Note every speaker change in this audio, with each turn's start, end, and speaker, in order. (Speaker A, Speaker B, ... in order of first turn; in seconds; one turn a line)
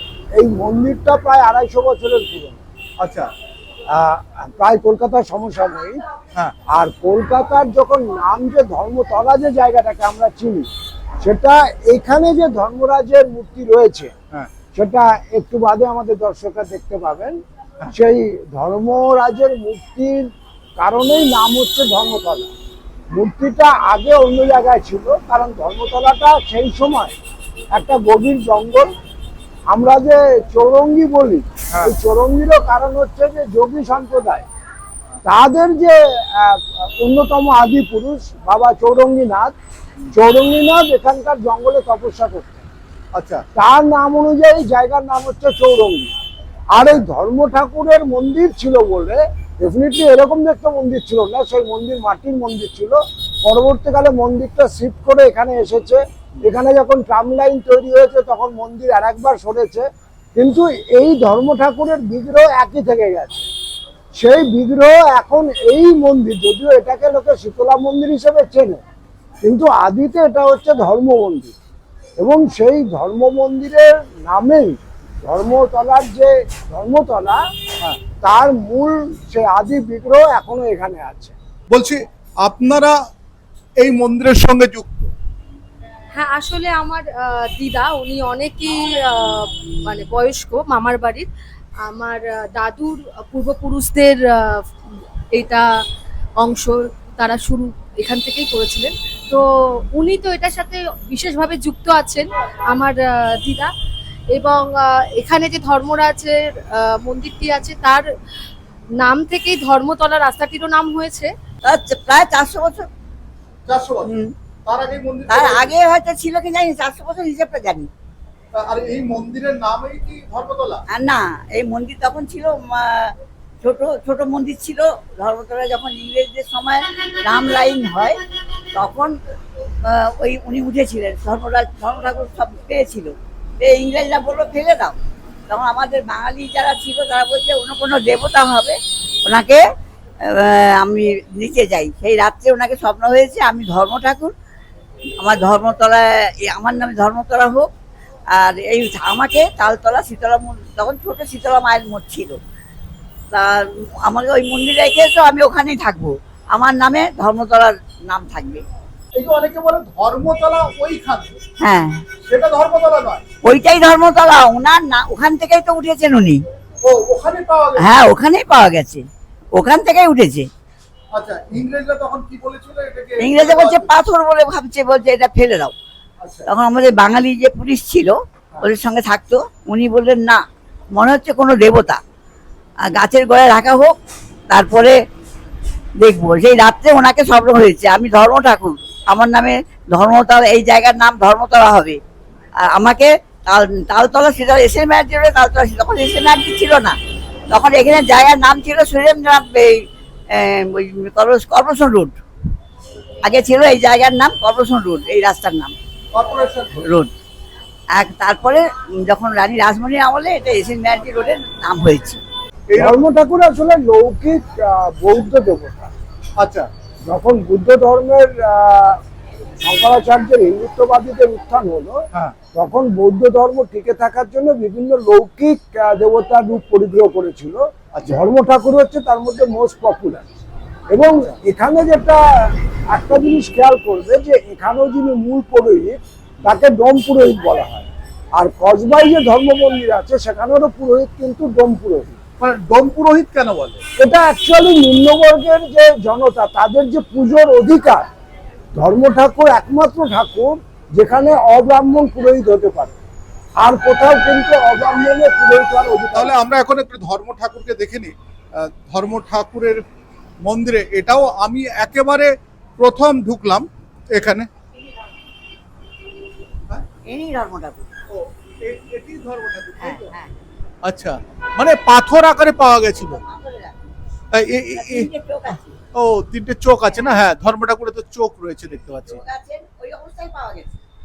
Speaker A: 0.3-2.6
Speaker B: 3.0-3.3
Speaker A: 3.9-6.0
Speaker A: 6.7-10.7
Speaker A: 11.2-14.1
Speaker A: 14.7-17.4
Speaker A: 17.9-22.5
Speaker A: 23.1-27.1
Speaker A: 27.7-28.9
Speaker A: 29.7-34.5
Speaker A: 35.2-39.5
Speaker A: 40.1-42.6
Speaker B: 43.1-43.4
Speaker A: 43.5-46.1
Speaker A: 46.7-63.5
Speaker B: 46.8-47.0
Speaker A: 64.2-68.8
Speaker A: 69.4-71.5
Speaker A: 72.2-77.4
Speaker A: 78.2-81.3
Speaker B: 81.7-83.0
Speaker B: 83.8-85.1
Speaker C: 86.1-91.3
Speaker C: 91.9-94.6
Speaker C: 95.3-95.8
Speaker C: 96.4-103.7
Speaker C: 104.3-108.0
Speaker C: 109.0-111.3
Speaker D: 111.6-112.9
Speaker B: 113.7-114.1
Speaker D: 114.0-114.3
Speaker B: 114.7-115.7
Speaker D: 115.3-117.9
Speaker B: 118.5-120.8
Speaker D: 120.9-128.2
Speaker D: 128.7-129.1
Speaker D: 129.8-135.0
Speaker D: 135.5-139.6
Speaker D: 140.2-144.3
Speaker D: 145.2-147.7
Speaker D: 148.3-152.4
Speaker D: 153.3-158.6
Speaker B: 159.2-161.3
Speaker D: 161.6-162.0
Speaker B: 162.2-163.2
Speaker D: 163.4-166.4
Speaker B: 166.8-167.9
Speaker D: 167.8-170.5
Speaker B: 171.1-173.9
Speaker D: 173.2-175.7
Speaker B: 176.2-176.5
Speaker D: 176.5-180.4
Speaker D: 180.9-182.0
Speaker D: 182.9-184.0
Speaker D: 184.5-185.0
Speaker D: 186.0-192.0
Speaker D: 192.7-197.0
Speaker D: 197.5-199.8
Speaker D: 200.3-202.2
Speaker D: 203.2-205.7
Speaker B: 206.1-206.8
Speaker D: 206.8-207.1
Speaker D: 207.9-212.2
Speaker B: 212.7-213.0
Speaker A: 212.8-215.9
Speaker B: 216.4-216.7
Speaker A: 217.1-219.0
Speaker A: 219.6-230.2
Speaker B: 227.9-228.2
Speaker A: 230.9-242.2
Speaker B: 242.4-243.8
Speaker A: 244.0-248.0
Speaker A: 248.8-253.0
Speaker A: 253.6-256.3
Speaker B: 256.1-259.8
Speaker B: 260.4-264.5
Speaker D: 267.1-267.9
Speaker B: 268.1-270.1
Speaker D: 269.8-270.3
Speaker B: 270.9-273.2
Speaker D: 273.0-273.9
Speaker B: 274.3-275.1
Speaker D: 274.7-275.8
Speaker B: 276.0-279.2
Speaker D: 279.0-280.8